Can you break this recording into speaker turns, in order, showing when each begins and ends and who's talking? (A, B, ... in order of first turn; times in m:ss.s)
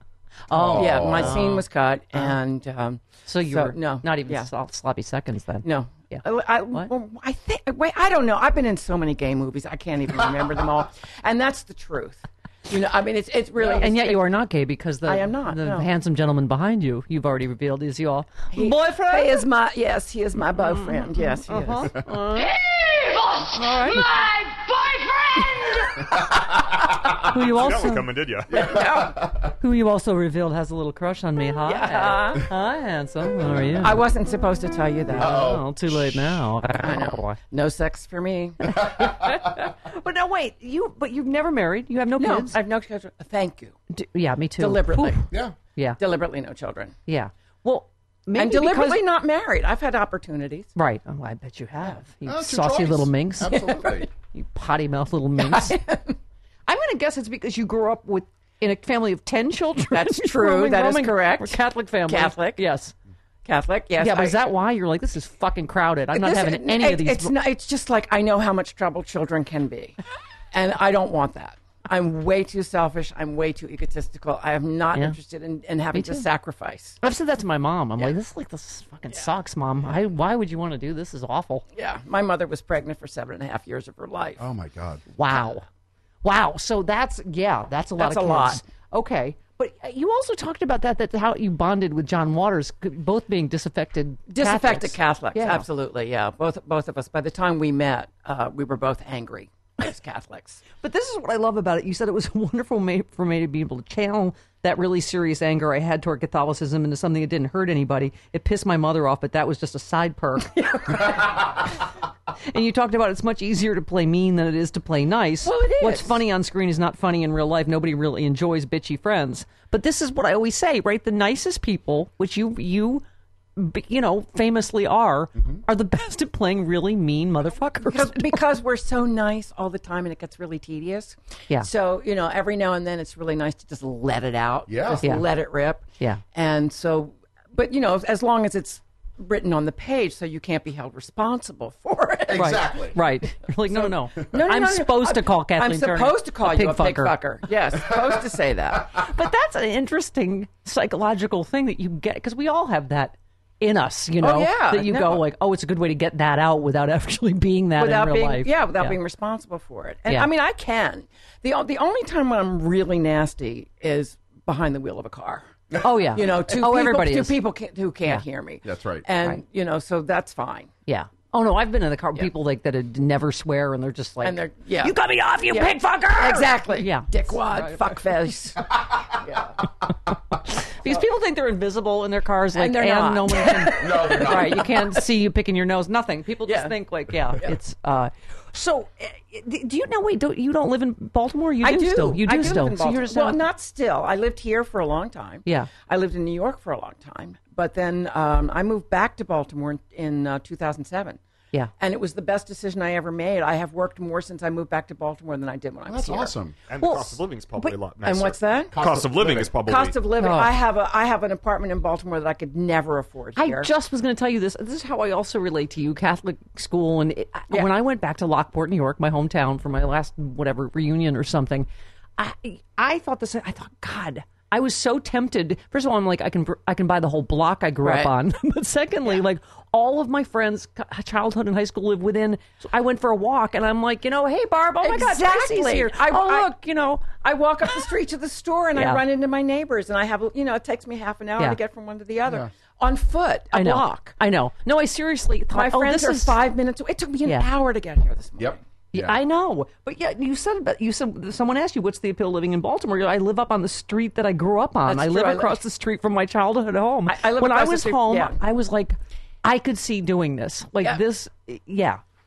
0:00.5-0:01.6 A
0:00.5-0:01.4 B
0:00.7-0:04.5 C
0:03.3-0:06.9 A
0:05.6-0:14.4 C
0:13.8-0:19.4 A
0:15.0-0:15.9 C
0:18.5-0:22.0 C
0:21.5-0:22.5 A
0:22.3-0:25.9 D
0:23.5-0:24.1 A
0:26.1-0:27.1 B
0:27.2-0:28.1 A
0:27.3-0:28.8 E
0:28.5-0:29.5 B
0:28.5-0:29.2 C
0:29.6-0:34.0 A
0:31.6-0:32.4 C
0:33.4-0:33.9 B
0:33.8-0:35.5 C
0:35.1-0:36.4 B
0:35.1-0:37.4 A
0:36.8-0:38.6 C
0:38.6-0:42.6 A
0:38.8-0:39.5 B
0:42.2-0:43.8 C
0:43.9-0:46.0 A
0:44.6-0:45.3 C
0:46.0-0:47.0 C
0:47.1-0:49.0 A
0:48.3-0:50.7 C
0:50.8-0:53.7 A
0:52.2-0:54.1 B
0:53.5-0:54.0 C
0:54.3-0:55.8 A
0:55.4-0:56.2 C
0:56.7-1:02.9 A
0:59.9-1:02.6 C
1:03.4-1:04.4 C
1:04.0-1:07.3 A
1:06.1-1:10.0 C
1:10.5-1:17.0 C
1:15.9-1:16.2 A
1:17.0-1:21.6 A
1:21.7-1:24.4 C
1:24.4-1:25.0 B
1:25.2-1:25.6 A
1:26.2-1:35.6 A
1:28.0-1:28.6 C
1:34.3-1:40.6 C
1:40.8-1:51.5 A
1:50.6-1:51.2 C
1:52.4-2:03.0 A
1:55.4-1:56.2 C
2:03.6-2:08.4 A
2:07.8-2:22.6 C
2:14.7-2:15.1 B
2:22.3-2:23.0 B
2:22.3-2:27.1 A
2:23.7-2:29.0 C
2:28.9-2:39.0 A
2:34.2-2:35.2 C
2:37.8-2:45.5 C
2:45.8-2:47.4 A
2:46.1-2:50.7 C
2:48.6-2:49.0 B
2:50.9-2:57.8 A
2:54.2-2:55.0 C
2:55.5-2:59.6 C
3:00.4-3:13.4 A
3:02.5-3:04.9 C
3:03.7-3:04.7 B
3:06.5-3:06.7 C
3:11.6-3:21.2 C
3:21.8-3:26.3 C
3:25.9-3:26.6 B
3:26.7-3:30.0 E
3:26.8-3:27.7 A
3:28.0-3:28.7 C
3:28.7-3:29.6 B
3:29.6-3:33.7 C
3:30.2-3:30.5 A
3:33.4-3:57.1 A
3:47.8-3:48.1 C
3:54.8-3:56.5 C
3:57.0-4:04.2 C
3:58.7-3:59.0 A
4:03.5-4:06.4 A
4:05.5-4:08.6 C
4:08.4-4:09.2 B
4:08.9-4:22.0 A
4:14.8-4:15.6 C
4:17.1-4:18.4 C